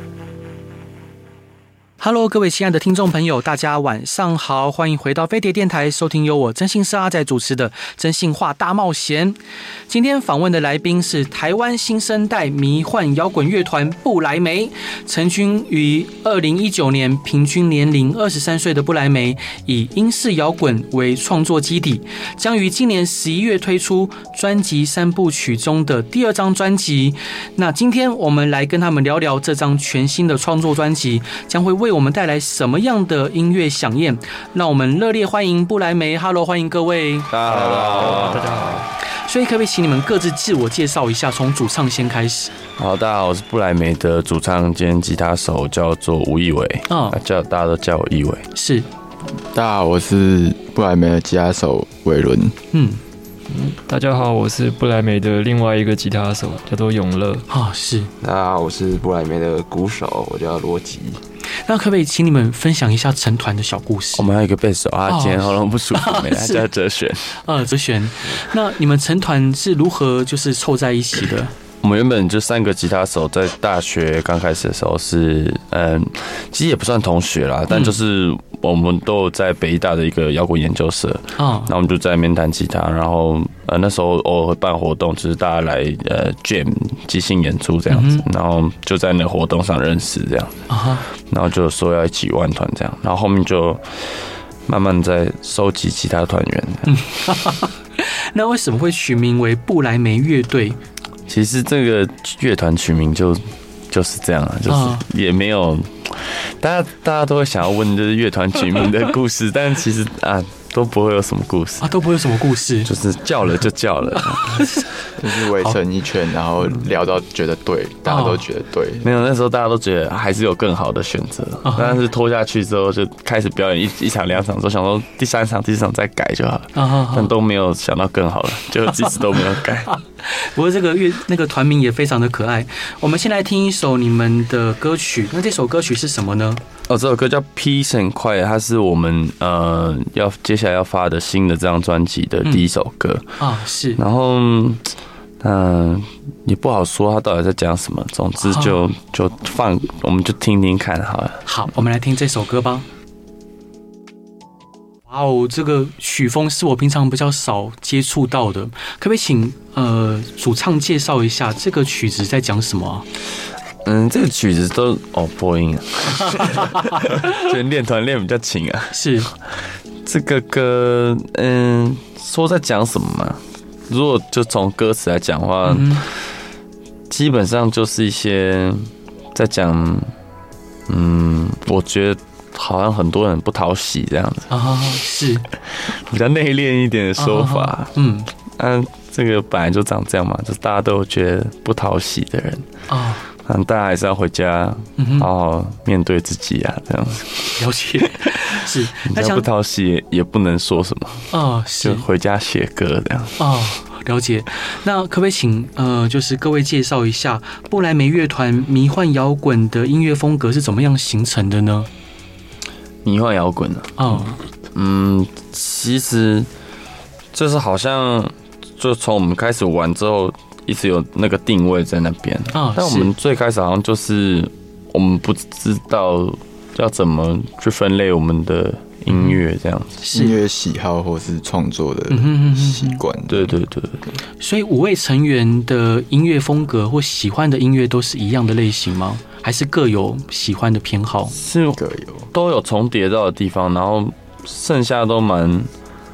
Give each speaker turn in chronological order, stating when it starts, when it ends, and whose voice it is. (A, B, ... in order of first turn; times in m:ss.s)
0:02.0-0:09.4 A
0:09.9-0:37.3 A
0:37.3-0:38.4 B
0:37.4-0:38.9 C
0:39.2-0:42.5 A
0:42.8-0:48.5 B
0:46.9-0:47.2 A
0:48.5-0:48.9 A
0:49.4-0:52.6 D
0:52.7-0:53.0 A
0:53.5-0:57.5 C
0:57.5-0:58.1 A
0:58.2-1:01.2 E
1:01.6-1:04.3 A
1:04.2-1:07.3 B
1:05.1-1:06.6 A
1:07.4-1:11.5 A
1:11.8-1:37.0 B
1:17.7-1:18.0 A
1:21.4-1:21.7 A
1:27.9-1:28.2 A
1:30.7-1:31.0 A
1:36.8-1:40.8 A
1:41.3-1:51.9 B
1:44.7-1:45.0 A
1:51.8-1:52.9 A
1:52.8-1:54.7 B
1:54.2-1:54.9 A
1:55.2-1:59.1 D
1:58.0-1:58.4 A
1:59.0-2:09.9 B
2:01.6-2:02.0 A
2:06.7-2:07.3 A
2:09.9-2:16.6 A
2:16.9-2:23.3 B
2:23.4-2:24.0 A
2:24.0-2:31.4 B
2:28.4-2:28.8 A
2:31.4-2:32.8 A
2:35.1-2:43.0 A
2:43.8-2:49.5 B
2:48.9-2:49.3 A
2:50.0-2:56.1 B
2:55.6-2:56.0 A
2:57.1-3:00.1 B
3:00.9-3:04.5 B
3:04.5-3:05.4 A
3:05.8-3:07.9 B
3:07.2-3:08.3 A
3:08.6-3:12.7 B
3:12.9-3:13.2 A
3:13.4-3:17.6 B
3:15.0-3:15.3 A
3:17.6-3:19.4 A
3:19.0-3:21.3 B
3:21.3-3:22.0 A
3:21.8-3:23.4 B
3:23.4-3:31.9 A
3:33.0-3:34.2 B
3:34.0-3:34.4 A
3:34.7-3:36.5 B
3:37.3-3:50.0 B
3:42.5-3:43.1 A
3:49.1-3:49.4 A
3:50.0-3:50.4 A
3:50.1-3:53.6 D
3:52.1-3:53.0 A
3:53.3-3:54.0 B
3:54.4-4:01.3 A
4:01.3-4:01.8 B
4:01.8-4:02.3 D
4:02.3-4:05.7 B